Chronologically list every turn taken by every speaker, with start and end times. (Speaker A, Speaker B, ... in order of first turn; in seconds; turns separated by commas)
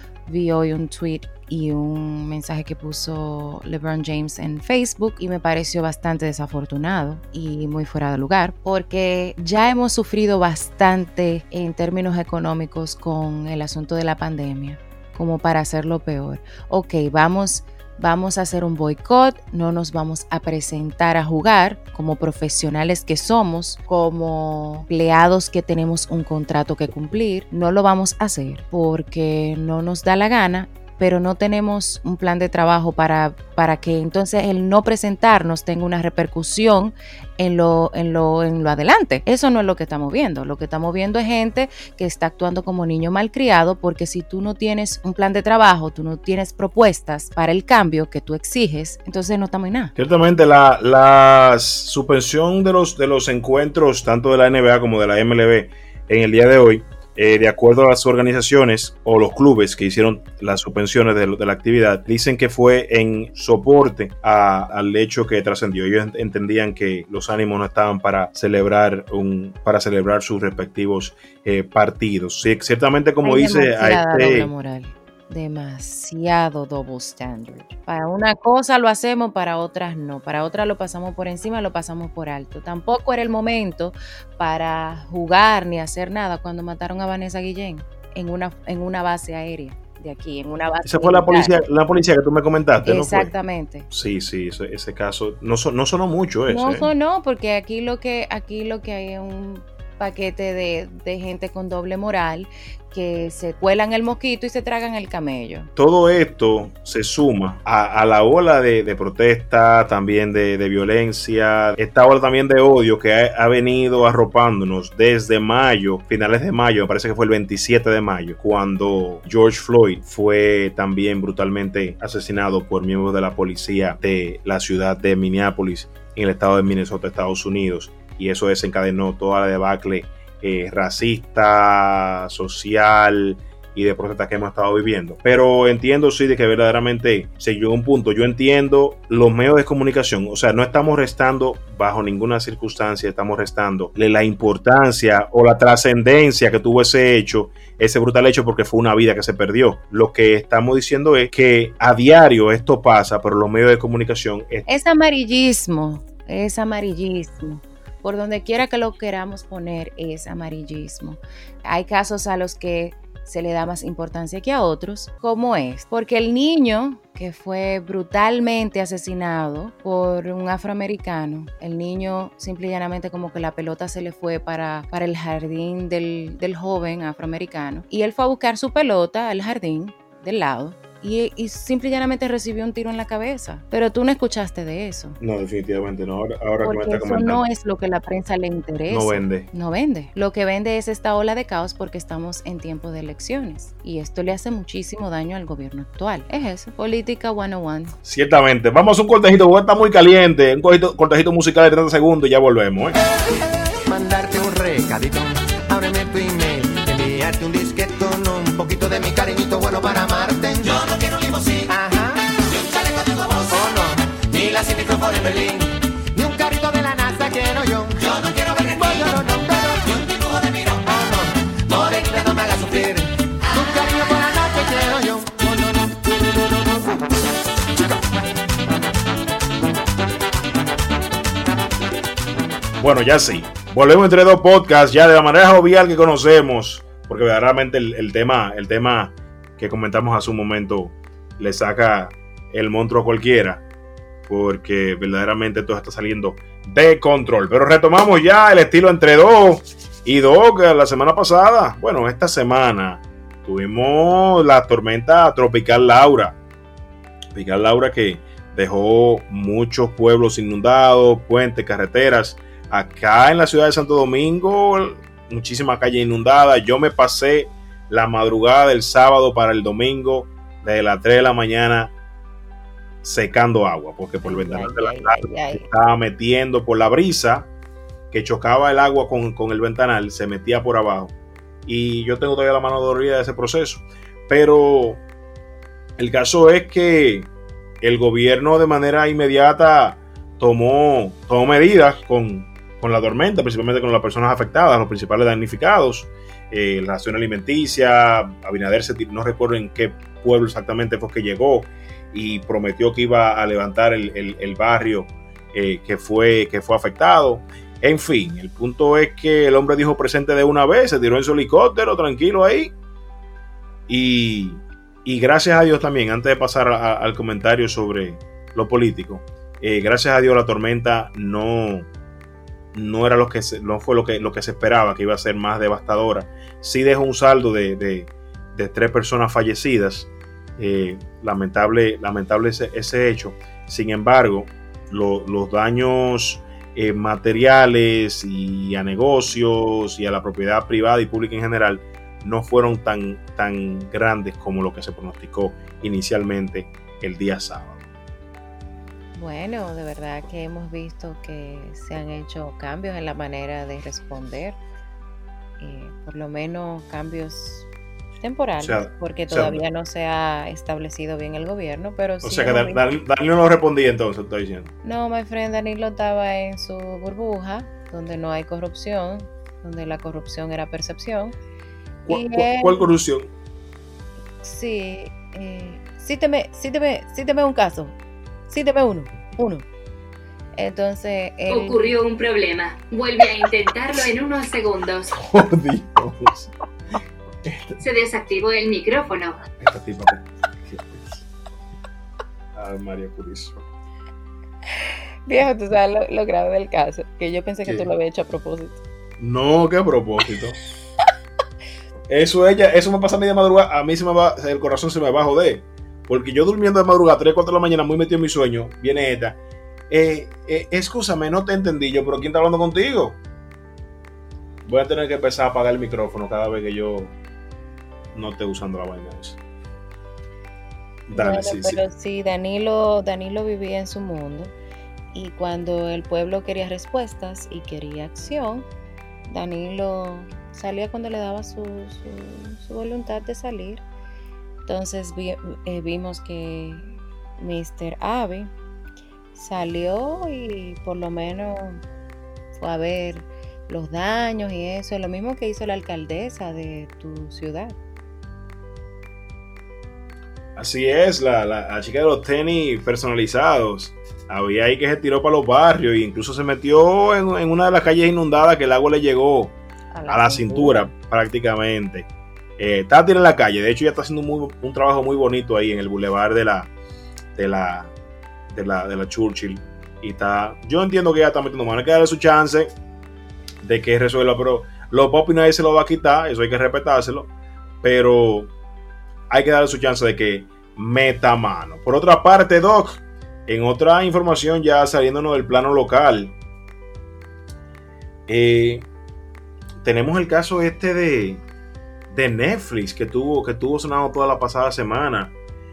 Speaker A: 0.2-49.9, Speaker B: 49.9-74.5, Speaker A: 73.2-91.6, Speaker B: 90.8-93.3, Speaker A: 92.8-93.9, Speaker B: 93.9-96.9, Speaker A: 96.5-105.7, Speaker B: 105.8-154.7, Speaker A: 154.7-185.2, Speaker B: 185.2-187.4, Speaker A: 186.6-197.9, Speaker B: 188.9-189.5, Speaker B: 198.0-202.9, Speaker C: 203.8-227.1, Speaker B: 232.8-243.6, Speaker B: 244.3-256.4, Speaker B: 257.3-271.9, Speaker B: 273.0-277.5, Speaker A: 274.2-275.7, Speaker B: 278.1-281.1, Speaker B: 281.6-285.0, Speaker B: 286.0-287.3, Speaker B: 287.8-312.7, Speaker B: 313.9-321.9, Speaker B: 322.7-347.9, Speaker A: 349.1-354.6, Speaker A: 355.6-357.7, Speaker A: 358.2-362.8, Speaker B: 358.6-359.6, Speaker B: 362.2-364.7, Speaker A: 364.8-371.4, Speaker B: 372.1-373.3, Speaker A: 372.1-372.9, Speaker A: 374.4-377.9, Speaker A: 378.5-379.7, Speaker A: 380.5-381.9, Speaker D: 381.5-385.2, Speaker B: 385.2-386.5, Speaker B: 387.4-387.8, Speaker D: 387.8-389.4, Speaker B: 389.6-391.2, Speaker B: 392.5-393.6, Speaker A: 394.8-398.8, Speaker B: 399.2-400.6, Speaker B: 402.1-409.4, Speaker B: 409.9-413.2, Speaker B: 414.6-417.1, Speaker B: 418.1-419.4, Speaker B: 421.1-421.8, Speaker A: 421.1-424.5, Speaker A: 425.1-428.7, Speaker A: 429.2-433.8, Speaker A: 434.6-438.5, Speaker A: 439.3-441.8, Speaker A: 442.5-447.8, Speaker B: 450.6-459.6, Speaker A: 459.9-460.9, Speaker B: 460.1-466.7, Speaker B: 467.4-467.9, Speaker B: 468.5-472.7, Speaker B: 473.6-477.3, Speaker B: 477.8-478.5, Speaker B: 479.3-486.4, Speaker B: 488.3-488.9, Speaker B: 489.8-491.4, Speaker B: 492.1-495.3